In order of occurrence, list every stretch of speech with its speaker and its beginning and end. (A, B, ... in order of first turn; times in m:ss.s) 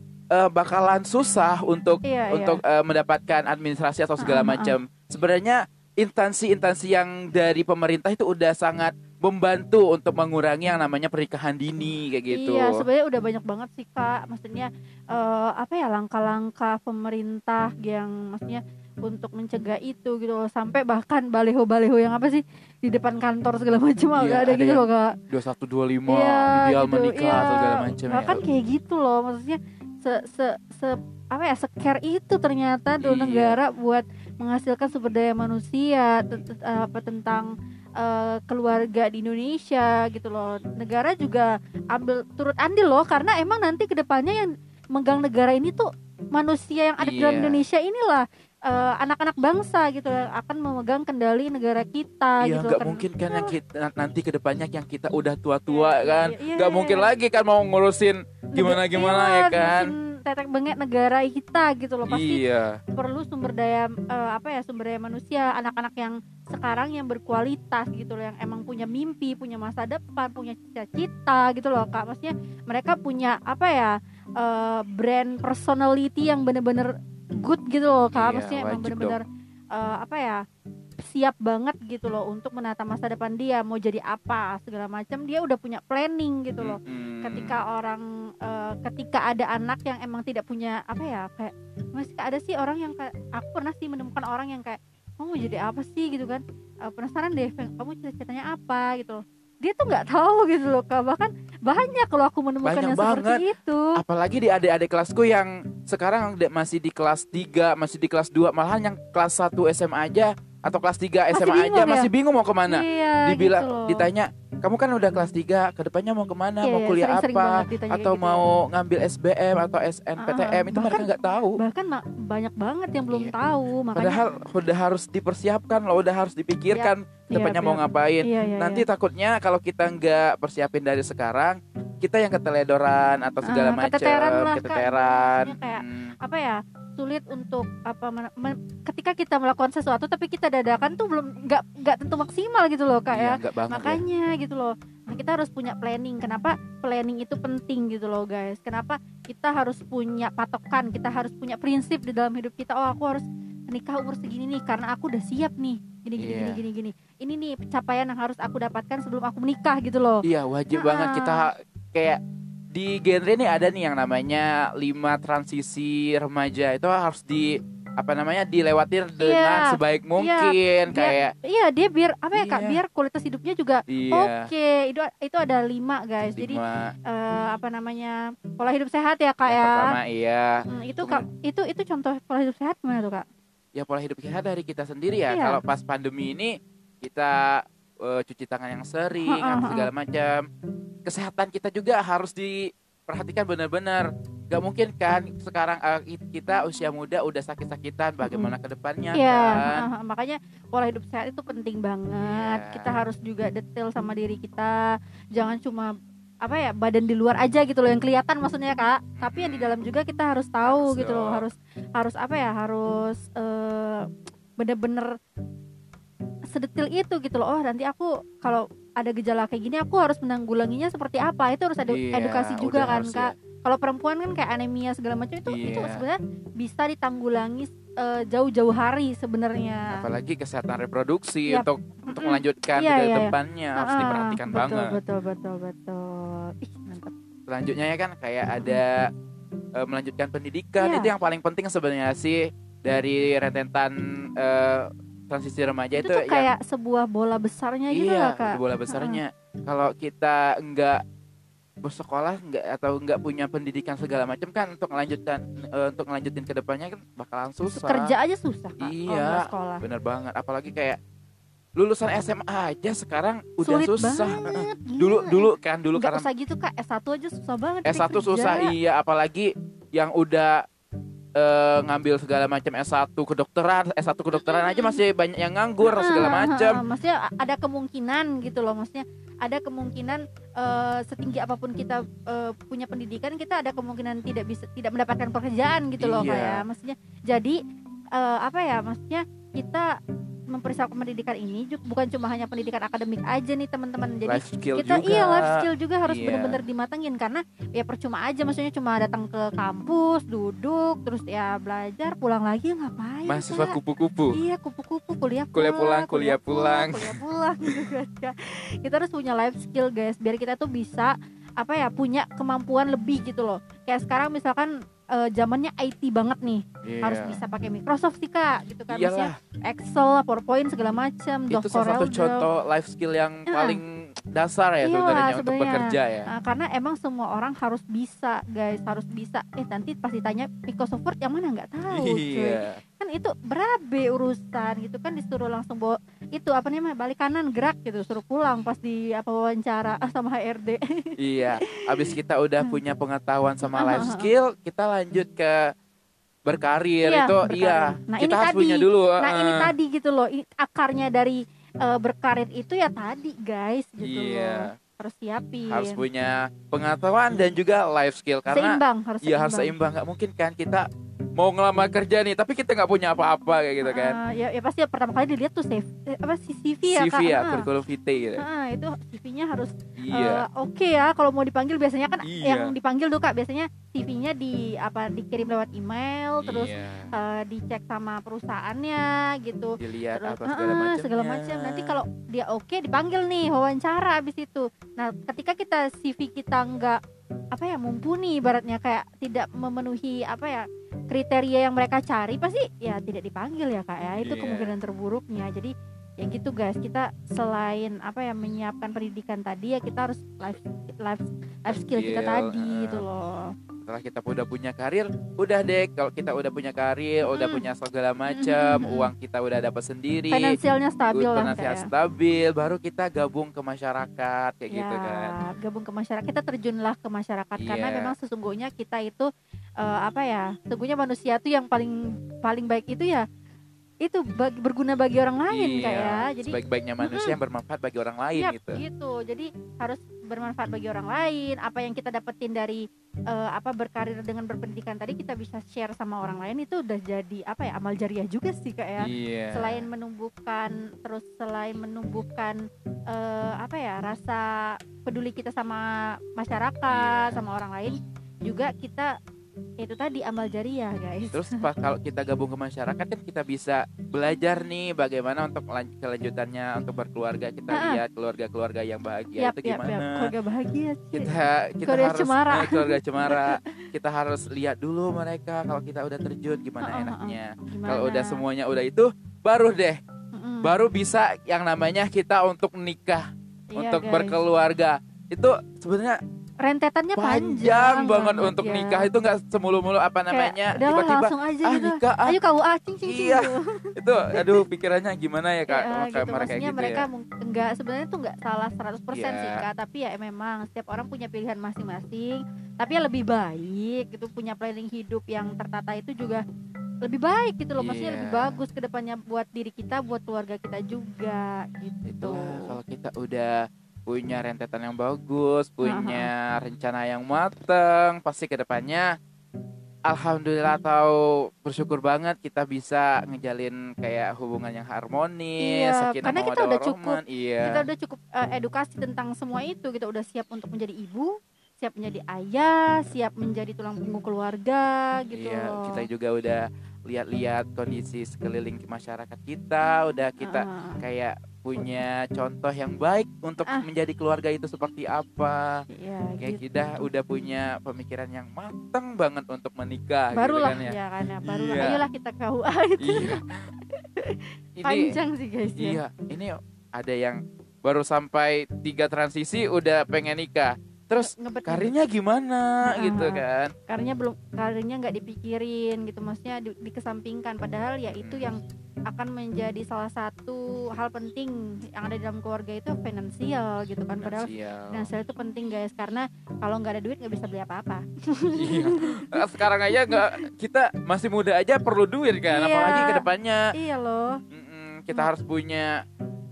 0:00.3-0:12.8 A
0:02.0-0:02.6 B
0:04.2-0:04.8 B
0:12.3-0:25.2 B
0:24.2-0:28.4 A
0:26.1-0:53.5 B
0:33.0-0:33.6 A
0:47.0-0:47.6 A
0:52.4-0:59.9 A
0:55.7-0:57.1 B
0:58.5-1:02.4 B
1:02.1-1:02.8 A
1:02.9-1:20.4 B
1:18.1-1:19.2 A
1:21.0-1:44.0 B
1:26.6-1:27.6 A
1:42.6-2:01.6 A
1:51.3-1:52.1 B
1:52.7-1:54.1 B
1:56.6-1:58.4 B
2:00.2-2:04.2 B
2:03.9-2:16.1 A
2:06.7-2:08.8 B
2:13.4-2:41.5 B
2:23.1-2:24.0 A
2:36.2-2:36.6 A
2:40.2-2:42.2 A
2:42.7-2:51.3 A
2:49.2-2:59.9 B
2:52.3-2:52.8 A
2:53.9-2:54.5 A
2:56.4-2:56.9 A
2:59.5-3:01.2 A
3:00.7-3:03.2 B
3:03.8-3:10.4 A
3:05.3-3:05.6 B
3:09.2-3:09.9 B
3:11.0-3:19.8 A
3:18.2-3:18.5 B
3:19.1-3:24.8 B
3:22.2-3:22.9 A
3:25.3-3:25.9 B
3:26.4-3:34.0 B
3:29.2-3:29.8 A
3:30.6-3:31.4 A
3:34.6-3:35.1 B
3:36.5-3:50.0 B
3:41.9-3:43.3 A
3:45.5-3:46.0 A
3:49.9-3:54.9 A
3:51.5-3:57.1 B
3:57.5-3:59.1 A
3:59.8-4:06.5 A
4:00.8-4:01.1 B
4:06.0-4:09.2 B
4:07.9-4:11.0 A
4:11.8-4:18.1 A
4:17.7-4:19.8 B
4:18.8-4:21.0 A
4:21.8-4:26.3 A
4:23.6-4:28.7 B
4:27.8-4:30.6 A
4:31.4-4:36.8 A
4:34.4-4:35.0 B
4:35.8-4:47.6 B
4:46.0-4:46.6 A
4:48.1-4:49.9 B
4:50.5-5:03.8 B
4:54.3-4:56.6 A
5:03.2-5:04.4 A
5:04.3-5:22.4 B
5:05.5-5:07.2 A
5:16.8-5:17.4 A
5:18.9-5:19.4 A
5:21.5-5:26.3 A
5:23.5-5:23.8 B
5:24.8-5:41.1 B
5:31.9-5:32.8 A
5:41.2-5:45.6 A
5:41.6-5:42.8 B
5:43.7-5:44.3 B
5:46.4-5:49.7 A
5:47.0-5:56.0 B
5:54.0-5:54.7 A
5:55.7-6:04.2 A
5:58.5-5:59.7 B
6:03.8-6:07.7 B
6:06.9-6:08.4 A
6:08.4-6:27.0 B
6:10.0-6:10.4 A
6:12.2-6:12.7 A
6:16.4-6:17.1 A
6:19.8-6:22.0 A
6:27.5-6:43.5 B
6:34.2-6:34.7 A
6:41.7-6:43.0 A
6:43.8-6:50.6 A
6:47.2-6:47.6 B
6:48.3-6:49.1 B
6:50.3-6:51.9 B
6:51.1-6:55.3 A
6:54.7-6:59.3 B
6:57.6-6:58.1 A
6:59.8-7:03.2 B
7:04.0-7:07.4 B
7:05.5-7:08.8 A
7:08.3-7:22.6 B
7:19.0-7:19.8 A
7:23.1-7:29.1 B
7:26.9-7:27.4 A
7:29.8-7:31.6 B
7:31.3-7:40.3 A
7:37.7-7:38.0 B
7:39.4-7:41.3 B
7:41.1-7:50.0 A
7:41.8-7:43.8 B
7:46.8-7:48.4 B
7:50.3-7:50.7 B
7:50.6-7:56.2 A
7:53.7-7:54.4 B
7:56.6-7:59.1 B
7:57.2-8:02.4 A
8:00.3-8:04.6 B
8:03.0-8:07.1 A
8:05.7-8:16.4 B
8:09.1-8:09.6 A
8:17.0-8:22.7 B
8:17.8-8:18.6 A
8:22.1-8:23.5 A
8:24.1-8:29.1 A
8:25.8-8:26.3 B
8:30.1-8:37.8 A
8:35.6-8:46.0 B
8:45.3-8:55.8 A
8:50.4-8:51.0 B
8:55.9-8:57.1 B
8:56.4-9:02.0 A
9:00.3-9:06.0 B
9:03.0-9:03.7 A
9:04.8-9:05.2 A
9:05.8-9:13.7 A
9:11.2-9:11.9 B
9:12.8-9:30.4 B
9:18.2-9:18.5 A
9:24.2-9:25.1 A
9:28.6-9:33.7 A
9:32.5-9:34.3 B
9:34.5-9:36.0 A